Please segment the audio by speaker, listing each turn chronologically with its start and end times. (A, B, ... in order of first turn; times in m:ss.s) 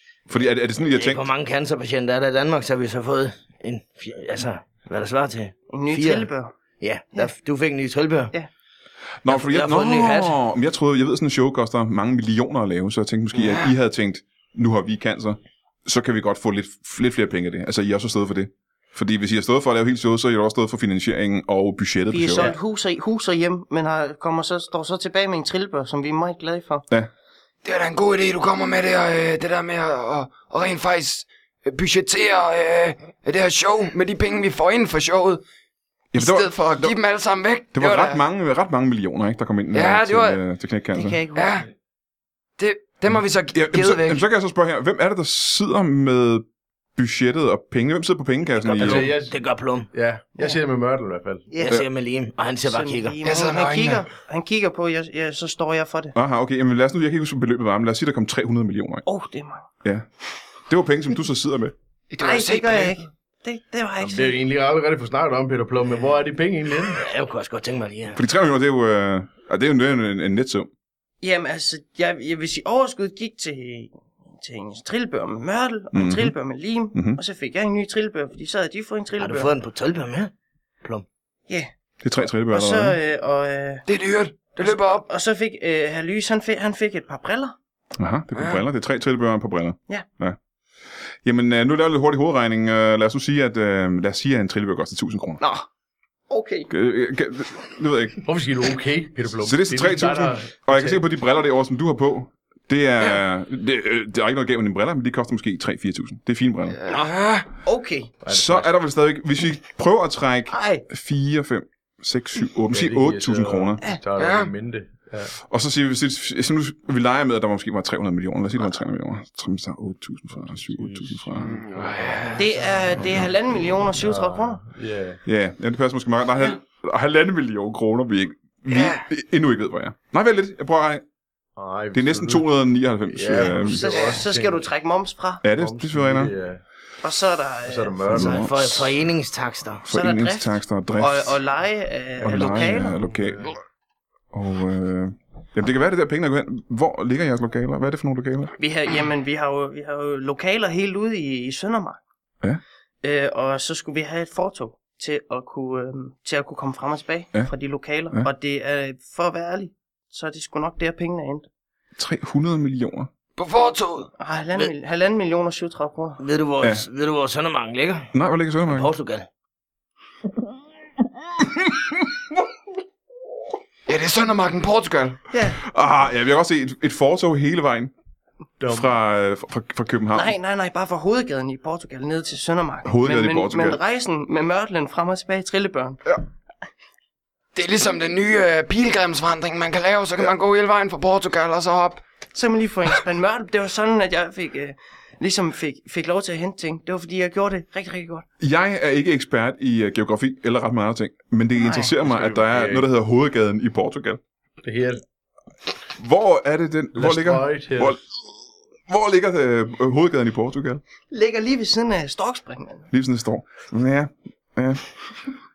0:00.3-0:01.3 A
0:00.9-0:06.3 B
0:05.7-0:06.5 C
0:06.8-0:08.3 B
0:09.2-0:22.5 A
0:09.3-0:10.4 B
0:13.4-0:13.7 D
0:22.1-0:26.8 C
0:27.6-0:35.4 D
0:36.1-0:37.0 A
0:36.2-0:38.2 D
0:37.7-0:41.2 A
0:39.7-0:40.4 D
0:40.9-0:41.6 C
0:41.3-0:41.7 D
0:42.6-0:44.2 D
0:43.5-0:46.4 A
0:47.0-0:49.1 A
0:48.6-0:49.9 B
0:48.7-0:49.4 E
0:49.9-0:51.5 E
0:51.5-0:51.8 C
0:51.6-0:53.2 B
0:52.6-0:56.1 C
0:53.2-0:54.1 D
0:56.1-0:59.0 A
0:59.0-0:59.6 C
1:00.7-1:01.7 A
1:02.1-1:03.0 D
1:02.2-1:04.4 C
1:04.0-1:07.0 E
1:06.9-1:08.2 B
1:08.1-1:10.7 A
1:11.2-1:19.5 C
1:15.9-1:16.3 A
1:16.9-1:17.2 A
1:19.2-1:20.3 B
1:22.0-1:23.0 A
1:22.5-1:23.8 C
1:23.9-1:25.0 D
1:24.6-1:27.5 C
1:28.0-1:30.4 A
1:28.4-1:28.6 D
1:31.2-1:35.4 A
1:35.4-1:35.6 C
1:36.3-1:36.7 C
1:36.7-1:38.2 A
1:38.2-1:41.0 E
1:39.3-1:46.8 A
1:46.7-1:47.5 D
1:47.6-1:48.1 C
1:48.2-1:48.7 E
1:48.3-1:53.8 A
1:50.5-1:50.8 C
1:52.7-1:55.3 E
1:54.2-1:54.5 D
1:55.4-2:01.6 A
2:00.5-2:01.3 E
2:01.4-2:02.4 D
2:02.0-2:02.3 E
2:02.4-2:04.6 C
2:03.9-2:05.2 E
2:05.2-2:11.0 A
2:08.7-2:09.0 D
2:11.6-2:12.4 E
2:11.9-2:14.0 A
2:13.0-2:14.6 E
2:13.5-2:15.4 C
2:15.4-2:16.3 A
2:15.5-2:16.6 E
2:17.0-2:18.2 C
2:17.6-2:18.5 E
2:18.1-2:18.8 A
2:18.1-2:19.8 B
2:19.8-2:21.3 A
2:19.9-2:22.9 C
2:22.2-2:23.5 E
2:22.2-2:23.5 A
2:24.3-2:28.5 A
2:28.6-2:32.0 C
2:33.0-2:41.4 C
2:42.0-2:43.1 A
2:43.4-2:44.1 D
2:44.2-2:46.2 C
2:46.2-2:48.1 B
2:48.1-2:48.9 A
2:48.6-2:49.3 B
2:53.9-2:55.2 D
2:55.3-2:55.6 C
2:55.6-2:57.9 A
2:58.6-2:58.9 E
2:58.7-3:00.3 A
3:00.1-3:06.0 C
3:02.8-3:03.8 A
3:07.5-3:12.0 D
3:12.3-3:18.2 C
3:18.4-3:24.2 A
3:21.6-3:21.9 C
3:21.9-3:22.9 E
3:24.6-3:25.0 E
3:26.0-3:28.0 A
3:26.9-3:28.0 E
3:28.9-3:30.8 A
3:31.1-3:32.9 C
3:32.9-3:34.8 A